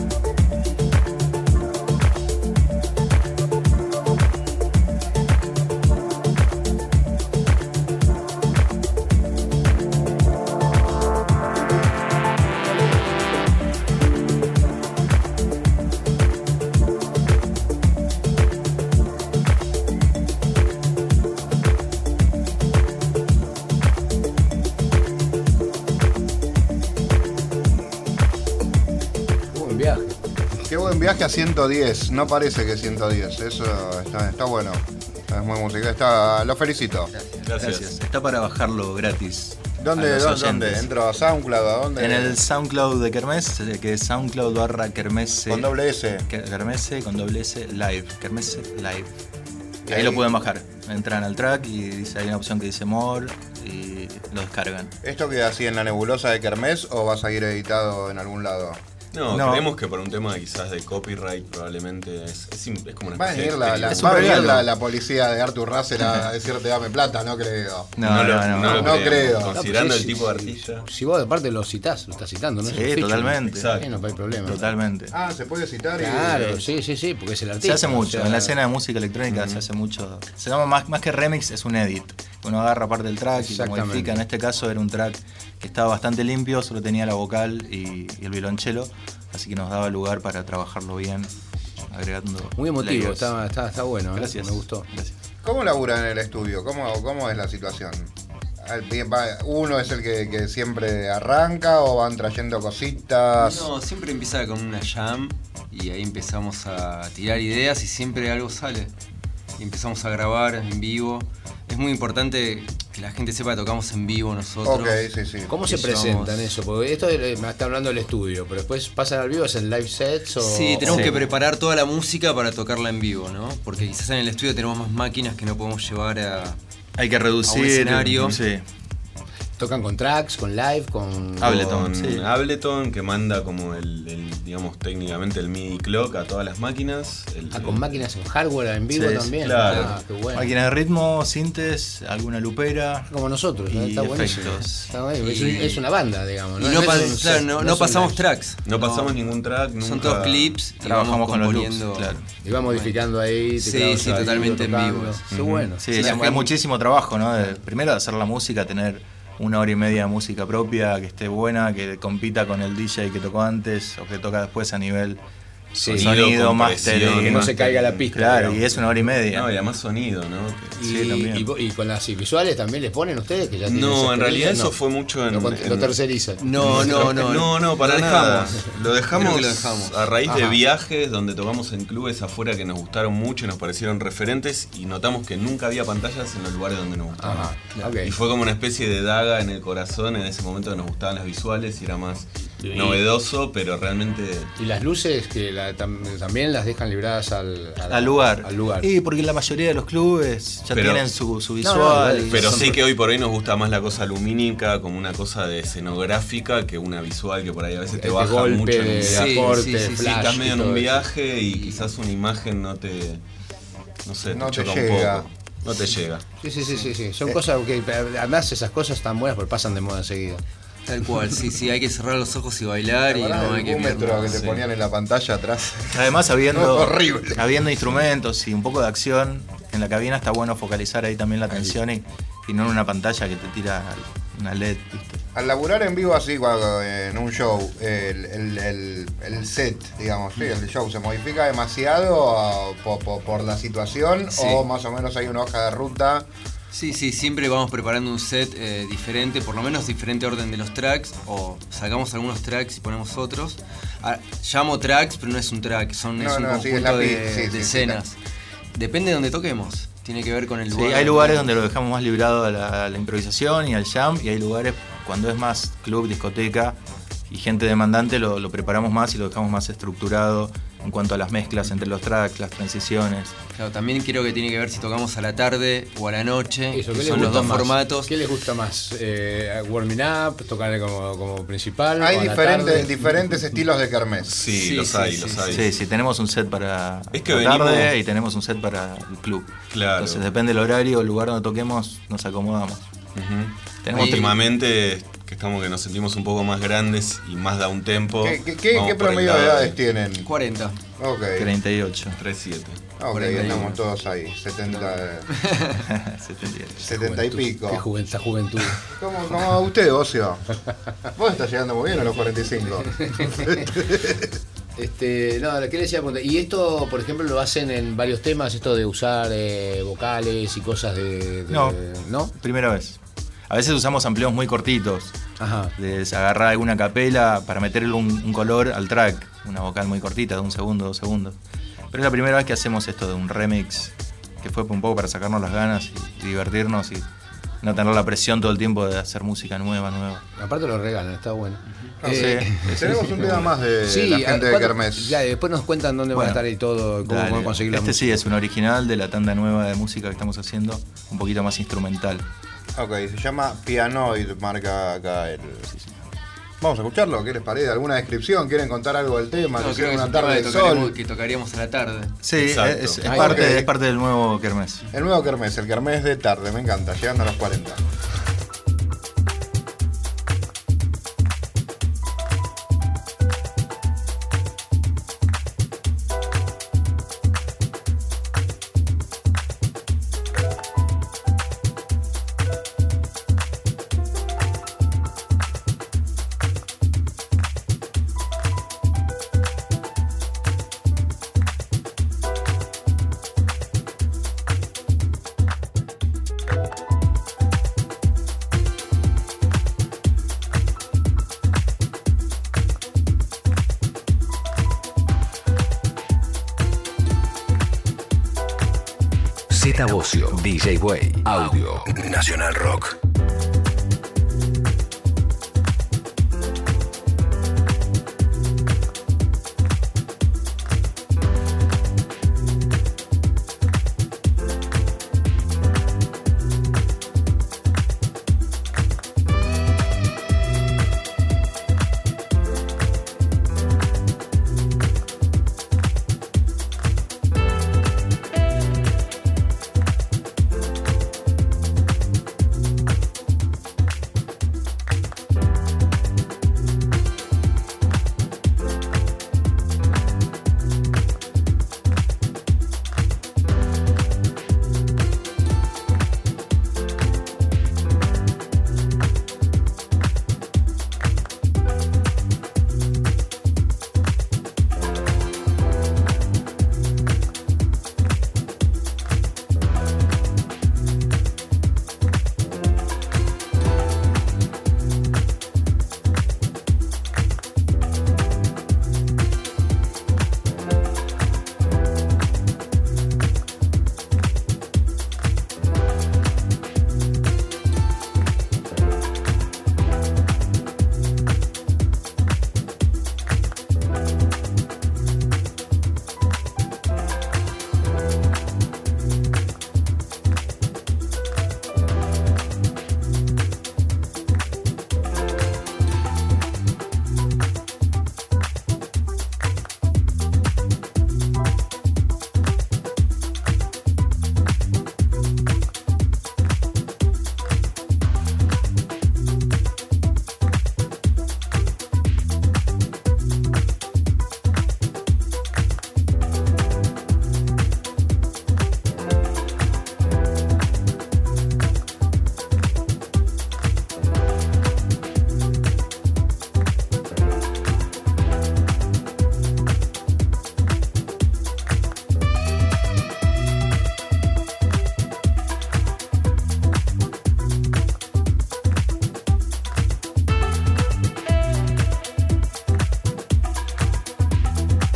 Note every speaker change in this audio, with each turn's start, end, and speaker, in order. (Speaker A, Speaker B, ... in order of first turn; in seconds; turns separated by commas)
Speaker A: 29.5-30.2, Speaker B: 30.6-37.1, Speaker C: 37.1-37.5, Speaker D: 37.5-37.9, Speaker E: 37.6-40.9, Speaker B: 39.8-42.4, Speaker E: 42.0-45.7, Speaker B: 45.5-46.2, Speaker E: 46.2-49.1, Speaker B: 49.9-50.3, Speaker E: 49.9-54.9, Speaker B: 55.0-58.8, Speaker D: 59.1-64.6, Speaker E: 59.3-59.7, Speaker B: 63.1-67.9, Speaker E: 63.9-64.7, Speaker E: 68.0-69.1, Speaker D: 68.0-70.8, Speaker B: 68.7-69.6, Speaker A: 69.5-74.6, Speaker E: 72.7-73.8, Speaker D: 73.4-73.9, Speaker E: 74.4-75.1, Speaker B: 75.1-76.7, Speaker A: 76.0-78.5, Speaker E: 77.6-91.3, Speaker D: 79.3-79.6, Speaker A: 83.3-84.2, Speaker E: 91.9-93.3, Speaker A: 92.6-94.9, Speaker E: 94.1-95.1, Speaker B: 95.4-103.7, Speaker C: 103.4-108.9, Speaker C: 109.6-115.1, Speaker B: 114.6-115.5, Speaker A: 115.5-121.2, Speaker C: 115.7-116.5, Speaker C: 120.4-126.6, Speaker E: 120.8-121.2, Speaker E: 127.0-128.6, Speaker C: 127.4-128.3, Speaker A: 129.6-131.8, Speaker E: 131.4-132.3, Speaker D: 131.4-138.0, Speaker A: 137.5-140.5, Speaker E: 138.9-139.4, Speaker D: 139.4-139.9, Speaker C: 139.6-139.9, Speaker E: 140.3-143.1, Speaker A: 143.1-148.2, Speaker E: 143.7-144.9, Speaker C: 145.2-145.8, Speaker C: 146.6-153.0, Speaker D: 148.6-150.7, Speaker E: 150.7-152.3, Speaker A: 152.4-155.8, Speaker C: 153.6-155.2, Speaker D: 154.0-154.4, Speaker D: 155.3-156.2, Speaker E: 155.8-165.2, Speaker C: 155.9-156.6, Speaker E: 165.7-167.6, Speaker A: 165.8-166.1, Speaker D: 165.9-170.8, Speaker A: 167.2-168.6, Speaker E: 168.1-169.5, Speaker A: 170.8-174.7, Speaker E: 170.8-171.5, Speaker D: 173.6-175.9, Speaker A: 175.3-176.4, Speaker C: 176.4-180.3, Speaker D: 176.6-194.5, Speaker A: 187.2-188.1, Speaker A: 192.6-193.0, Speaker A: 194.6-198.9, Speaker E: 197.9-202.8, Speaker D: 200.7-201.2, Speaker A: 201.6-202.8, Speaker D: 202.3-213.2, Speaker A: 208.0-210.9, Speaker C: 209.0-210.5, Speaker C: 211.5-211.9, Speaker D: 214.0-216.2, Speaker B: 214.2-215.3, Speaker A: 216.4-220.4, Speaker C: 220.9-224.5, Speaker B: 223.1-227.7, Speaker D: 224.3-224.6, Speaker E: 225.9-235.2, Speaker B: 235.3-246.2, Speaker C: 244.3-244.7, Speaker C: 246.7-258.2, Speaker B: 256.2-258.0, Speaker C: 258.7-261.5, Speaker E: 260.7-266.8, Speaker E: 267.3-273.3, Speaker C: 273.5-278.1, Speaker A: 276.7-283.1, Speaker B: 282.0-284.3, Speaker D: 284.2-285.7, Speaker C: 284.5-285.6, Speaker E: 285.5-292.8, Speaker D: 287.1-287.9, Speaker D: 289.7-290.2, Speaker D: 293.1-299.8, Speaker E: 293.8-294.4, Speaker B: 298.2-300.3, Speaker C: 300.2-300.8, Speaker B: 301.0-301.5, Speaker E: 301.4-302.2, Speaker D: 302.2-302.9, Speaker B: 303.0-305.3, Speaker C: 303.1-303.8, Speaker A: 303.2-303.5, Speaker C: 304.9-305.8, Speaker E: 305.9-306.9, Speaker B: 306.8-307.8, Speaker A: 306.8-308.8, Speaker B: 308.9-310.4, Speaker B: 311.1-314.3, Speaker A: 313.1-313.6, Speaker A: 314.8-322.3, Speaker E: 321.5-321.8, Speaker E: 322.3-325.1, Speaker A: 325.4-325.7, Speaker E: 325.8-331.4, Speaker E: 331.9-337.1, Speaker E: 337.6-340.2, Speaker A: 340.4-343.2, Speaker B: 342.0-345.2, Speaker E: 342.1-343.4, Speaker A: 343.9-348.3, Speaker E: 346.1-346.4, Speaker E: 347.0-352.2, Speaker B: 352.8-355.8, Speaker B: 356.6-360.9, Speaker C: 359.5-362.2, Speaker E: 362.2-364.8, Speaker D: 362.3-363.2, Speaker A: 363.1-363.4, Speaker B: 363.1-363.7, Speaker B: 364.9-367.8, Speaker F: 409.5-412.9